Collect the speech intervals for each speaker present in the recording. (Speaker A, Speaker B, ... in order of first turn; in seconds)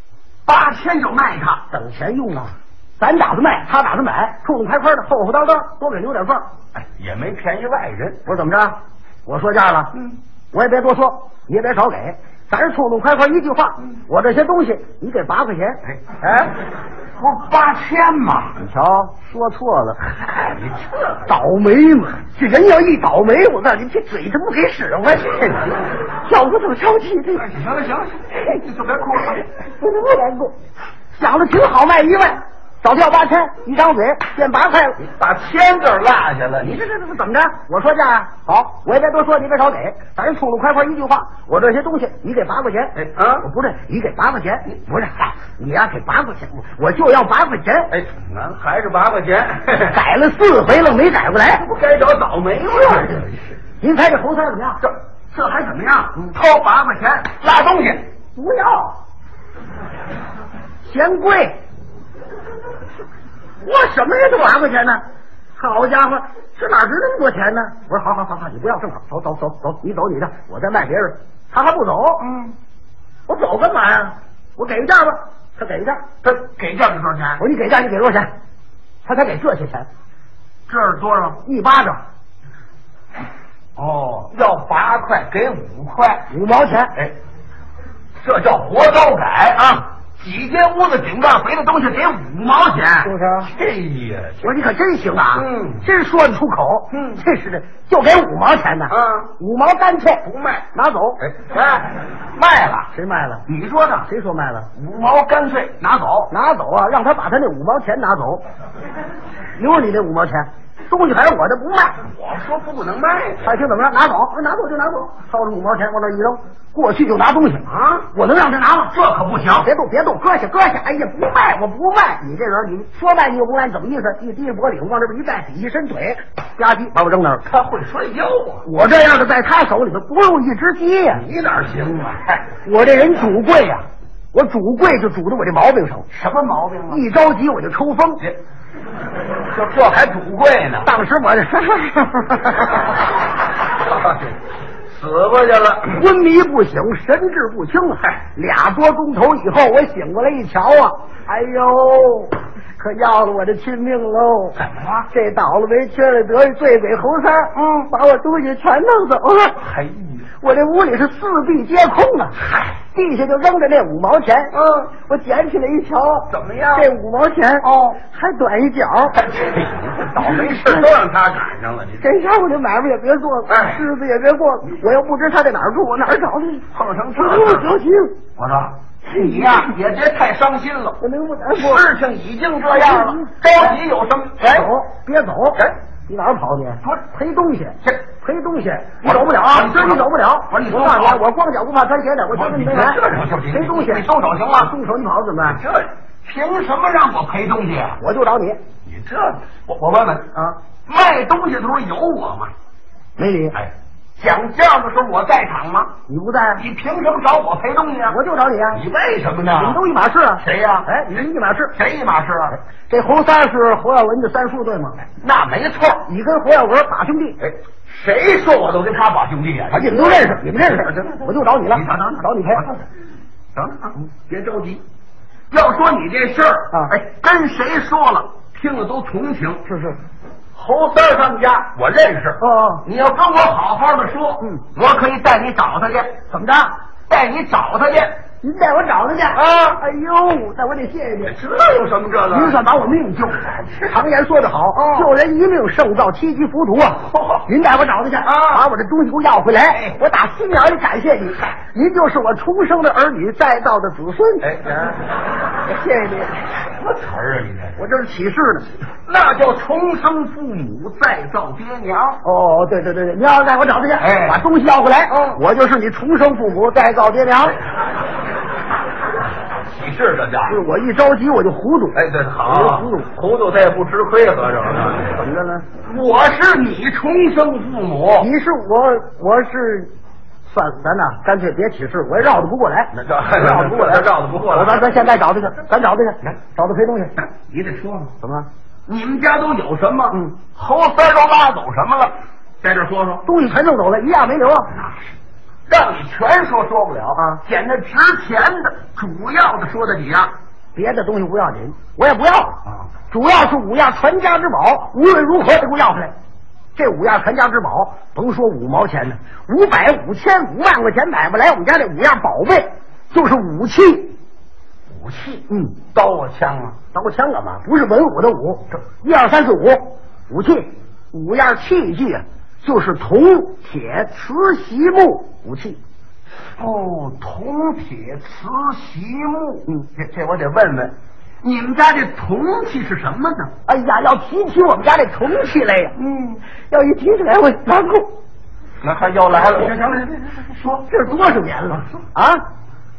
Speaker A: 0.5-1.6, 6.8-8.2, 15.8-16.5, 17.2-18.6, 20.2-21.2, 27.3-29.5, 35.0-36.8, 43.0-43.5, 47.9-50.0, 51.6-53.4, 54.8-58.0, 72.2-72.5, 76.2-77.4, 80.7-81.4, 83.8-86.2, 88.2-94.5, 95.3-95.8, 96.9-97.2, 98.9-99.3, 100.2-100.7, 101.2-102.9, 103.5-104.1, 104.8-106.3, 112.0-113.5, 118.9-119.7, 127.5-128.6, 131.1-132.4, 136.1-137.0, 139.5-140.9, 143.8-144.3, 144.9-146.0, 154.6-155.1, 157.5-157.9, 159.6-160.3, 164.5-164.9, 166.3-166.9, 167.6-168.0, 169.1-172.1, 173.5-173.8, 176.7-177.7, 178.4-181.0, 181.5-184.7, 189.0-191.2, 192.3-194.7, 195.4-198.0, 198.9-200.3, 200.9-202.5, 203.5-205.9, 206.6-208.2, 208.7-209.8, 210.4-211.2, 211.8-212.6, 215.2-216.1, 217.4-221.2, 221.7-222.8, 223.5-224.8, 225.5-229.6, 230.5-236.2, 237.1-238.2, 239.3-239.8, 241.2-242.6, 244.7-245.1, 247.1-247.4, 248.2-248.7, 249.7-250.0, 254.4-255.1, 256.8-257.8, 259.1-262.2, 264.0-264.4, 265.1-265.4, 269.6-270.6, 271.9-275.2, 275.8-278.3, 282.9-284.9, 287.2-288.1, 288.9-293.2, 295.7-300.3, 314.9-316.8, 326.6-333.5, 336.0-336.4, 338.8-340.9
Speaker B: 1.7-6.5, 8.2-9.9, 10.5-15.8, 18.6-20.1, 21.3-25.6, 26.2-27.4, 29.6-30.6, 31.1-35.0, 36.6-47.9, 49.9-51.6, 53.8-54.8, 58.4-59.0, 60.9-61.6, 63.6-65.0, 65.6-72.2, 73.3-76.0, 77.4-78.3, 79.0-79.9, 81.4-82.0, 86.3-86.9, 93.0-93.5, 94.4-101.2, 102.9-103.5, 104.1-104.7, 106.3-108.5, 109.6-112.0, 113.4-119.0, 119.5-127.5, 128.6-131.2, 132.6-136.1, 136.9-138.2, 140.8-142.9, 145.9-154.6, 155.1-159.6, 160.4-169.2, 170.2-170.9, 172.0-176.6, 177.2-178.2, 179.1-179.7, 181.0-181.9, 182.7-183.8, 184.4-195.6, 198.0-198.6, 203.2-203.6, 206.1-206.6, 208.1-208.8, 209.5-211.8, 212.9-215.0, 216.1-217.4, 219.7-222.6, 229.7-230.0, 232.4-232.8, 236.3-236.8, 238.4-241.4, 242.3-254.5, 255.7-256.3, 257.8-258.7, 262.2-267.6, 270.5-273.1, 275.1-275.6, 278.2-279.9, 280.5-287.1, 288.2-288.5, 293.2-294.7, 297.1-297.4, 300.8-302.6, 303.1-306.1, 306.8-314.1, 315.5-315.8, 316.9-325.8, 333.7-335.9, 336.7-338.2, 340.9-342.4